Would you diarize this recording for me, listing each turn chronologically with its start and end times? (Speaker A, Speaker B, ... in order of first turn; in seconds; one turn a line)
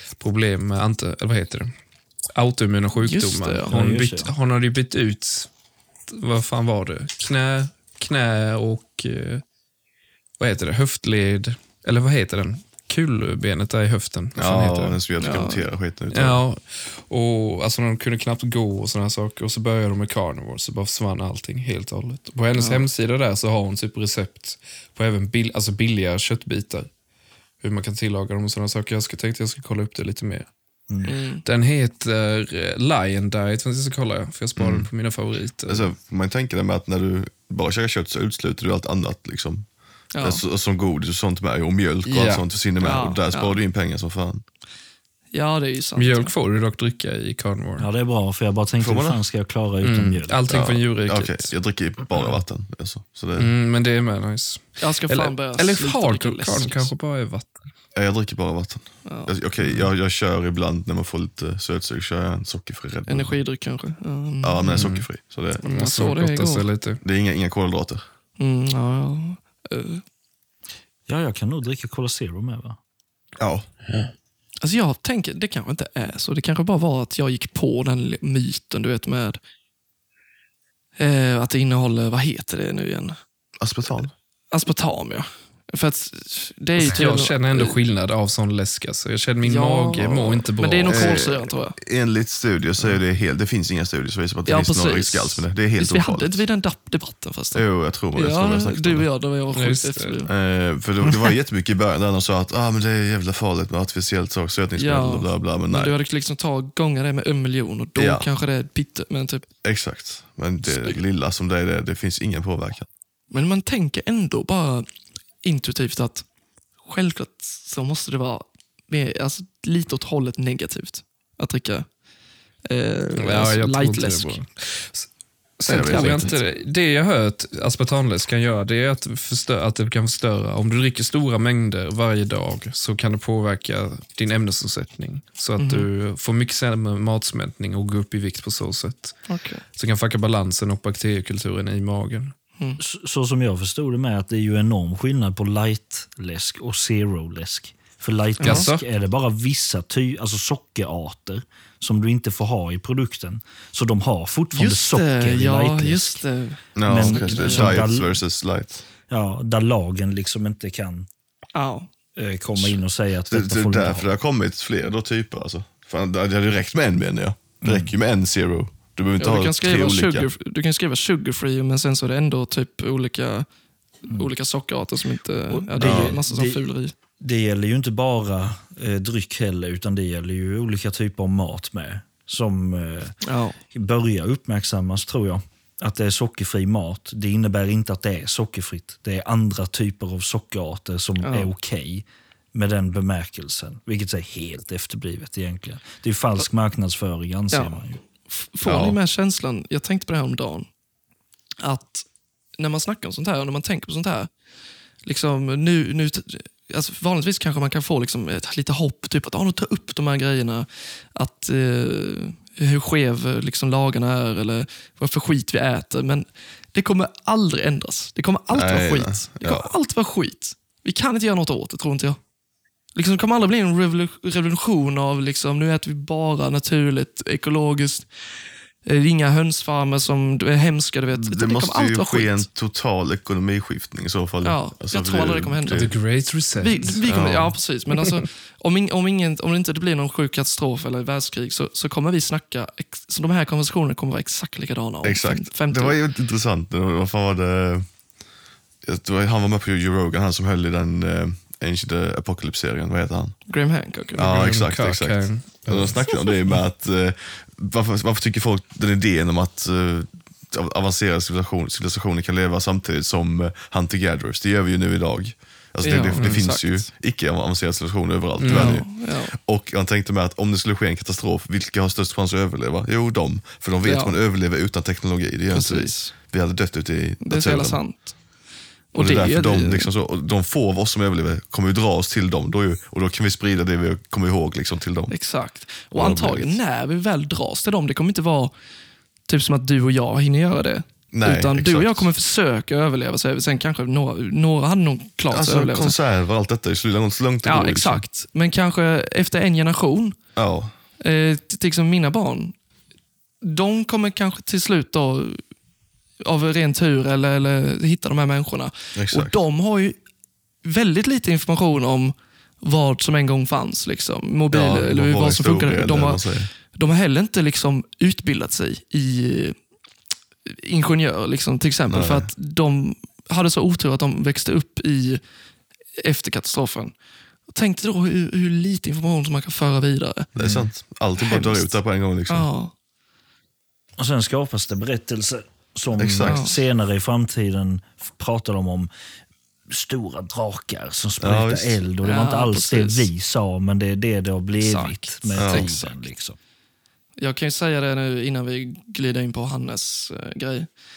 Speaker A: 0.2-1.7
Speaker A: 2.3-5.5
Speaker B: 3.0-3.8
Speaker C: 3.7-4.3
Speaker A: 6.1-9.4
Speaker A: 10.4-15.0
Speaker D: 14.4-16.4
Speaker B: 15.2-15.6
Speaker A: 16.1-26.9
Speaker B: 22.6-22.9
Speaker A: 27.6-30.5
Speaker B: 31.0-31.4
Speaker A: 31.4-35.9
Speaker D: 34.6-34.9
Speaker D: 35.7-39.7
Speaker B: 40.1-40.4
Speaker D: 40.2-44.4
Speaker A: 42.1-42.5
Speaker B: 42.8-43.6
Speaker B: 45.3-46.3
Speaker A: 46.0-47.9
Speaker C: 47.8-50.4
Speaker D: 48.8-49.2
Speaker A: 49.8-51.5
Speaker D: 50.5-53.5
Speaker A: 53.4-57.6
Speaker B: 54.8-56.9
Speaker D: 58.0-63.4
Speaker B: 59.0-59.3
Speaker A: 59.6-59.9
Speaker B: 63.1-64.7
Speaker D: 64.4-65.6
Speaker A: 64.7-65.1
Speaker B: 65.6-66.7
Speaker A: 65.6-67.0
Speaker D: 67.0-68.0
Speaker B: 68.4-70.0
Speaker C: 71.1-72.8
Speaker D: 73.4-73.7
Speaker B: 74.6-79.4
Speaker B: 81.0-83.2
Speaker D: 83.6-84.1
Speaker B: 84.5-87.8
Speaker A: 86.8-91.2
Speaker B: 89.4-91.8
Speaker D: 90.9-96.5
Speaker B: 94.5-100.3
Speaker D: 97.5-99.1
Speaker A: 99.5-100.2
Speaker D: 100.3-106.0
Speaker B: 104.8-109.5
Speaker D: 108.0-108.3
Speaker D: 109.6-112.9
Speaker B: 110.6-111.0
Speaker B: 113.3-114.9
Speaker B: 115.4-116.2
Speaker B: 116.8-121.9
Speaker B: 122.7-124.4
Speaker A: 123.2-125.1
Speaker A: 125.6-139.2
Speaker D: 125.7-126.3
Speaker B: 125.7-126.4
Speaker B: 135.6-135.9
Speaker B: 139.3-139.6
Speaker A: 139.7-142.3
Speaker C: 142.8-156.2
Speaker A: 148.4-148.8
Speaker B: 148.4-148.7
Speaker B: 154.5-157.9
Speaker D: 156.8-158.8
Speaker C: 156.8-158.2
Speaker C: 159.1-161.1
Speaker B: 161.6-161.9
Speaker C: 162.2-164.1
Speaker D: 163.3-170.3
Speaker C: 167.6-167.9
Speaker B: 169.2-173.5
Speaker B: 174.0-176.9
Speaker C: 175.5-176.6
Speaker D: 175.8-176.2
Speaker C: 177.2-183.1
Speaker B: 183.2-183.6
Speaker C: 183.7-198.0
Speaker B: 191.2-191.5
Speaker B: 197.5-200.7
Speaker D: 198.6-199.0
Speaker B: 201.6-202.1
Speaker B: 202.6-204.3
Speaker B: 205.1-222.2
Speaker D: 218.5-219.7
Speaker B: 222.9-228.1
Speaker B: 228.8-232.5
Speaker D: 231.1-235.9
Speaker B: 234.4-235.9
Speaker A: 235.7-237.0
Speaker B: 236.6-246.0
Speaker D: 237.1-237.6
Speaker D: 245.0-247.9
Speaker D: 248.8-253.4
Speaker B: 253.5-254.4
Speaker D: 254.1-277.8
Speaker A: 254.2-256.1
Speaker B: 265.8-266.9
Speaker A: 266.1-266.4
Speaker A: 268.4-268.8
Speaker B: 268.4-269.4
Speaker B: 273.8-274.2
Speaker B: 275.5-276.1
Speaker B: 277.2-278.1
Speaker B: 278.9-279.9
Speaker D: 279.0-285.1
Speaker B: 285.1-288.5
Speaker D: 285.9-286.6
Speaker B: 289.3-296.0
Speaker D: 291.1-292.1
Speaker D: 295.3-298.0
Speaker B: 297.4-300.2
Speaker D: 300.4-300.7
Speaker B: 301.0-302.6
Speaker B: 303.4-305.4
Speaker B: 306.2-310.0
Speaker D: 308.9-309.3
Speaker B: 310.6-319.6
Speaker D: 314.5-316.5
Speaker B: 320.5-325.2
Speaker D: 321.9-322.3
Speaker B: 326.0-326.9
Speaker B: 327.5-330.3
Speaker D: 330.4-332.5
Speaker C: 330.4-330.7
Speaker B: 331.2-331.7
Speaker B: 332.3-332.7
Speaker C: 334.0-338.9
Speaker D: 336.0-336.4
Speaker B: 336.2-336.6
Speaker C: 339.7-346.4
Speaker D: 341.2-341.8
Speaker B: 342.0-343.1
Speaker B: 344.6-346.0
Speaker D: 345.3-345.7
Speaker B: 347.2-350.7